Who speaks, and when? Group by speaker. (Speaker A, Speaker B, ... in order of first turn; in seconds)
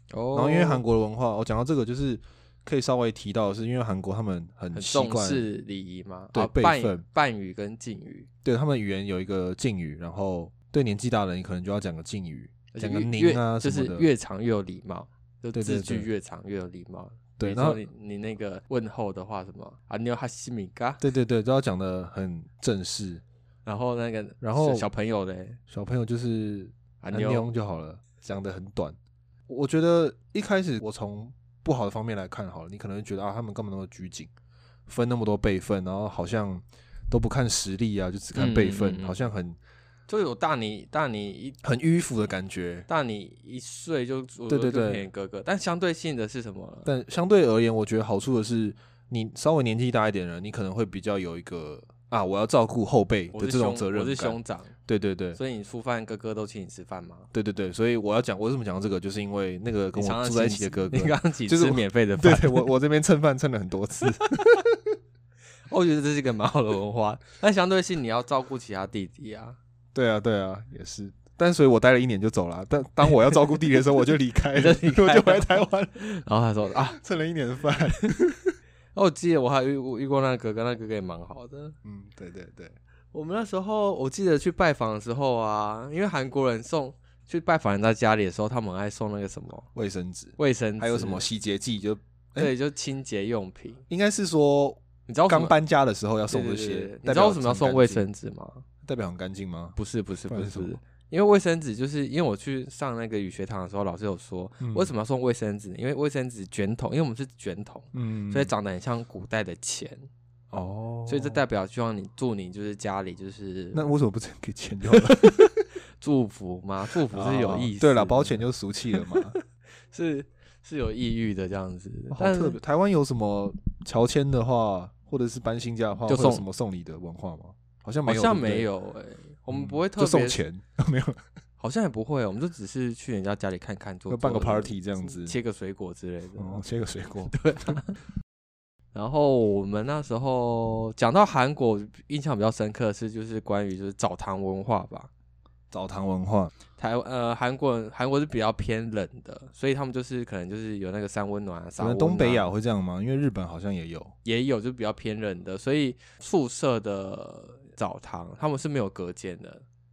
Speaker A: 0.1-0.8, 4.7-8.3, 12.7-21.0, 23.7-25.6, 27.0-27.5, 38.4-39.3, 40.1-41.6, 42.9-46.9, 53.3-54.7, 55.4-57.3, 60.0-62.7, 65.7-69.6, 74.5-77.0, 79.0-81.8, 83.1-89.7, 90.4-91.2, 92.4-93.8, 95.1-95.5, 96.3-98.6, 99.8-110.1, 111.1-113.9, 114.9-118.4, 119.9-122.6, 126.1-126.4, 128.1-130.4, 131.6-136.6, 137.3-138.0, 138.9-145.1, 146.8-152.5, 154.2-159.6
Speaker B: 0.3-5.5, 6.3-7.0, 8.4-14.1, 15.5-16.1, 17.4-17.8, 21.0-23.2, 24.4-24.9, 25.7-29.0, 29.5-34.3, 34.9-39.6, 41.6-42.9, 44.5-45.0, 46.9-55.4, 57.3-64.9, 69.9-76.0, 76.8-78.5, 81.8-82.8, 89.8-92.5, 93.9-98.0, 98.8-99.8, 100.3-100.8, 104.6-104.9, 107.9-108.5, 110.5-111.4, 113.7-115.5, 117.1-119.4, 122.1-128.7, 129.5-131.2, 134.1-135.4, 136.4-137.3, 145.7-146.5, 151.8-154.1